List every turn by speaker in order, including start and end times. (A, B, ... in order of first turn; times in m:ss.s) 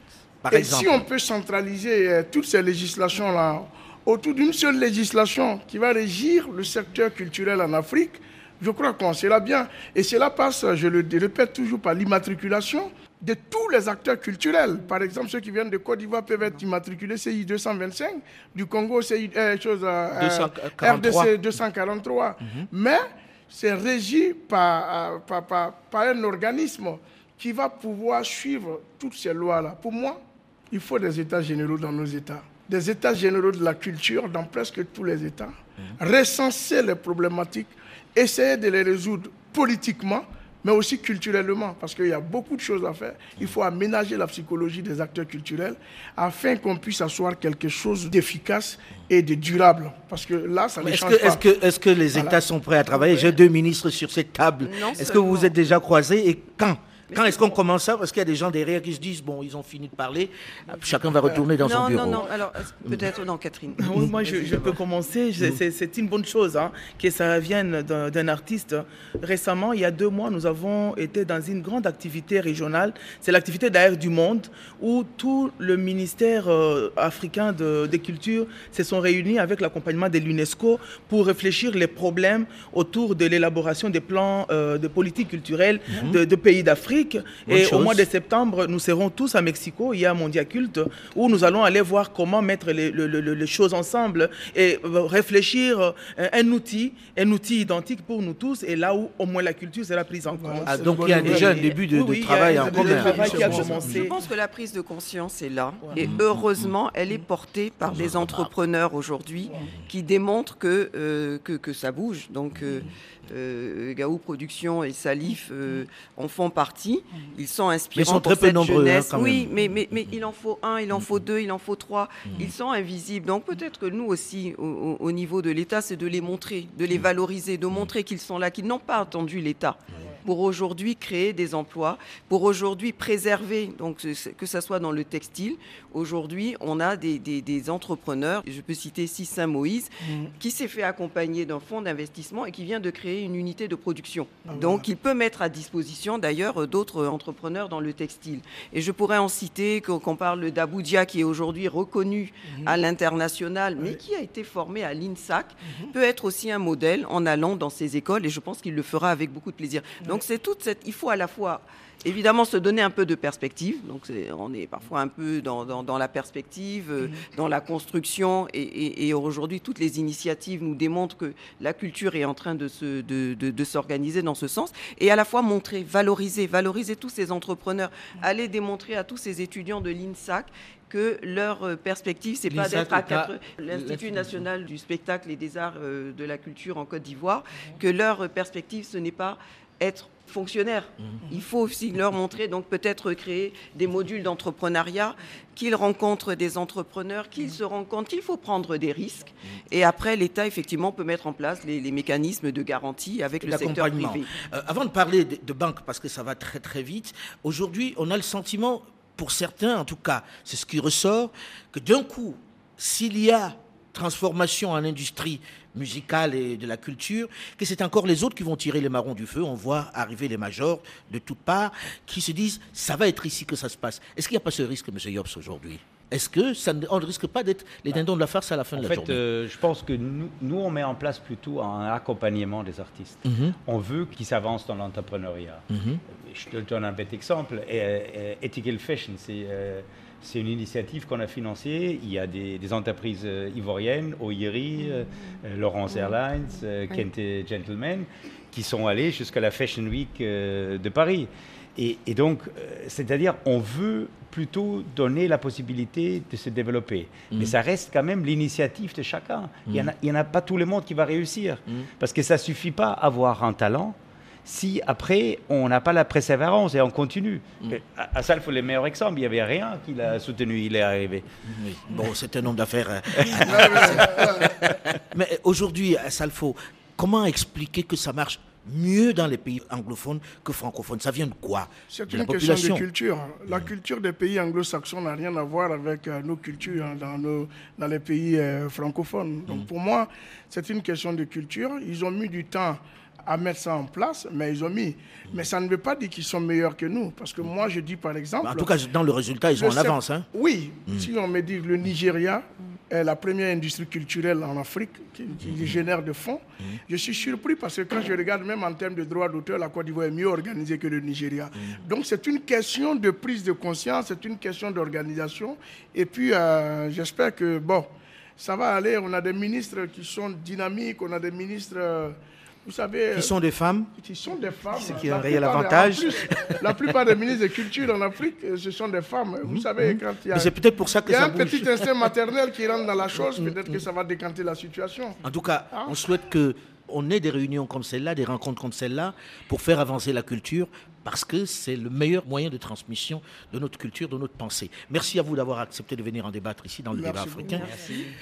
0:00.4-0:01.0 A
0:00.5-0:30.2 B
0:20.1-0:21.3 A
0:30.7-0:51.4 B
0:50.8-1:02.3 A
0:54.6-0:55.5 C
0:57.1-0:57.6 C
1:01.6-1:03.9 C
1:03.8-1:44.2 D
1:25.9-1:26.2 A
1:27.5-1:28.1 A
1:40.3-1:41.7 B
1:40.7-1:44.0 A
1:42.4-1:44.0 B
1:43.0-3:24.3 C
1:46.0-1:46.3 A
1:47.9-1:48.5 A
1:58.0-1:59.7 A
2:20.0-2:20.3 B
2:24.5-2:24.8 B
3:02.5-3:04.4 A
3:23.4-3:49.2 A
3:48.8-4:31.3 E
3:53.3-3:53.6 A
3:55.7-3:56.0 A
4:31.5-4:42.8 A
4:33.4-4:34.6 B
4:41.9-4:58.7 B
4:58.4-5:00.3 A
4:59.6-5:23.3 B
5:05.4-5:05.7 A
5:23.1-5:23.9 A
5:24.0-5:30.5 B
5:24.8-5:27.0 A
5:29.4-5:32.1 A
5:31.0-5:35.2 B
5:33.2-5:33.8 A
5:35.2-5:47.7 A
5:46.9-5:47.9 B
5:47.6-5:48.1 C